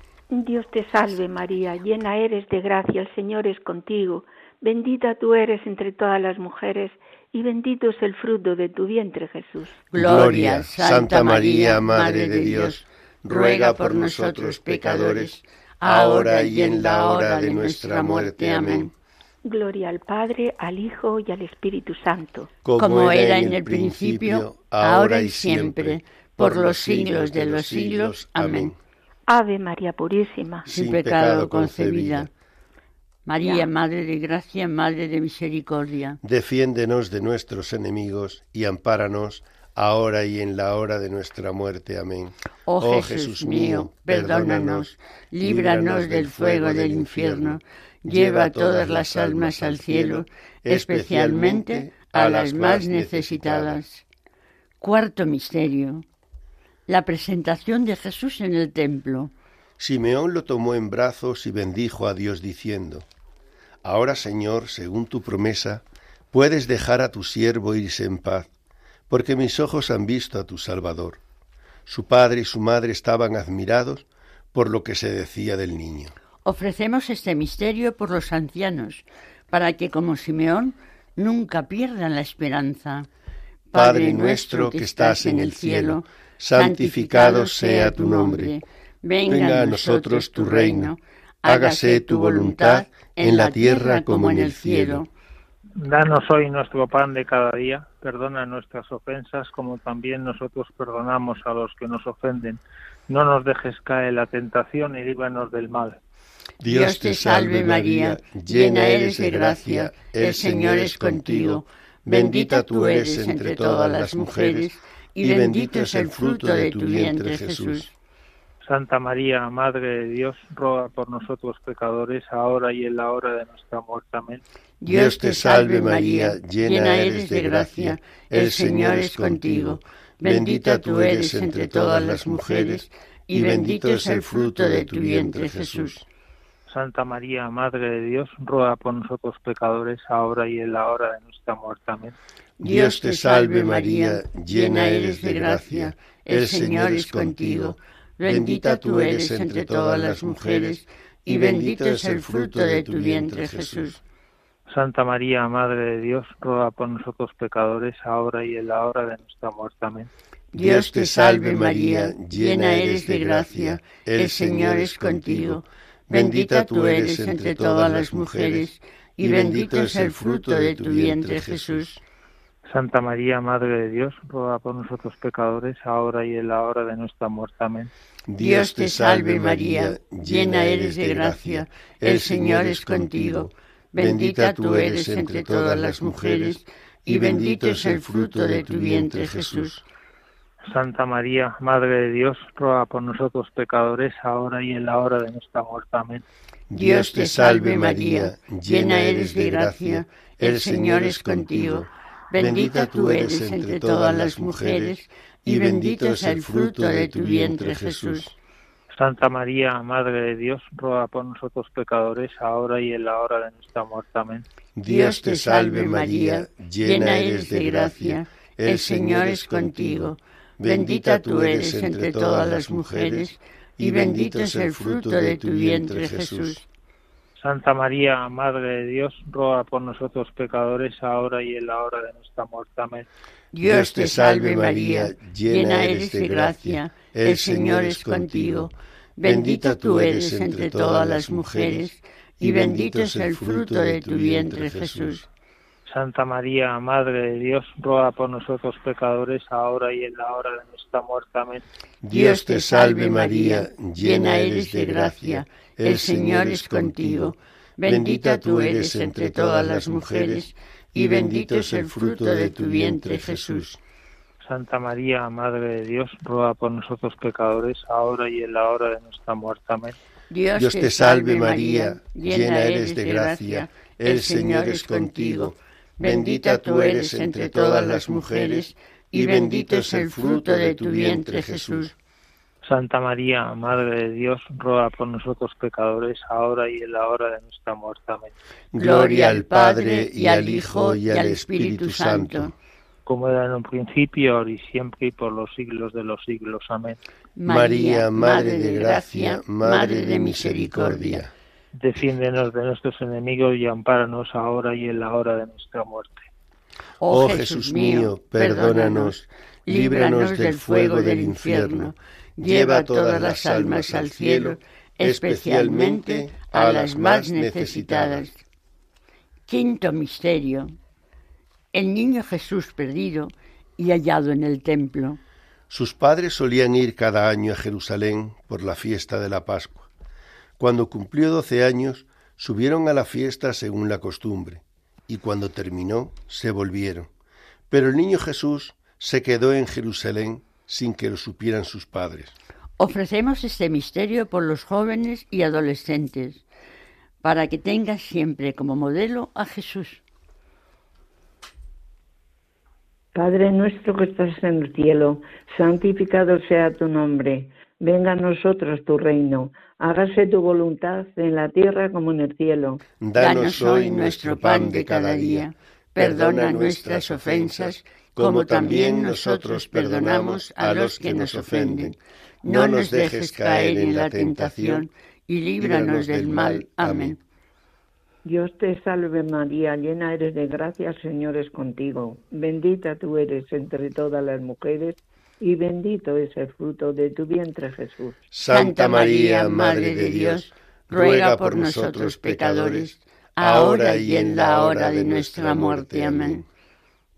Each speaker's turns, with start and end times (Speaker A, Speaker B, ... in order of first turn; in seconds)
Speaker A: 0.3-9.9, 19.4-22.5, 29.3-30.7
Speaker B: 9.9-18.9, 22.8-28.7, 30.7-32.3, 33.2-36.2, 42.7-54.0, 54.8-56.0, 56.9-59.3, 76.4-83.1, 83.7-95.1, 106.6-117.9, 124.8-135.9, 142.6-154.0, 160.5-171.9, 178.4-189.7, 196.7-208.2, 214.8-226.6, 233.5-245.2, 252.1-263.6, 270.3-281.9, 288.7-292.5, 297.4-301.2, 307.0-309.1, 309.6-318.4, 319.5-320.7, 321.7-325.2, 342.8-346.4, 347.2-350.0, 363.1-377.2, 388.5-396.4
Speaker C: 9.9-18.9, 22.6-28.8, 30.7-32.3, 36.2-53.8, 59.8-63.0, 63.8-68.5, 69.1-71.2, 71.9-76.1, 83.7-88.6, 89.3-90.9, 91.4-95.0, 106.6-117.9, 124.8-136.0, 142.6-154.0, 160.5-168.7, 169.2-172.0, 178.3-189.8, 196.7-208.3, 214.8-226.6, 233.6-241.9, 242.4-245.3, 252.0-263.8, 270.6-281.9, 288.7-292.5, 297.4-301.3, 307.0-318.2, 325.7-329.9, 330.6-337.1, 337.7-342.3, 363.0-374.9, 375.6-377.2, 388.3-396.4
Speaker D: 95.8-106.0, 118.6-124.4, 136.7-142.2, 154.7-160.1, 172.7-177.9, 190.7-196.2, 208.9-214.4, 227.4-233.1, 245.9-251.6, 264.4-269.9, 282.6-288.3, 293.1-297.0, 301.8-306.2
Speaker E: 353.1-362.8, 378.2-388.2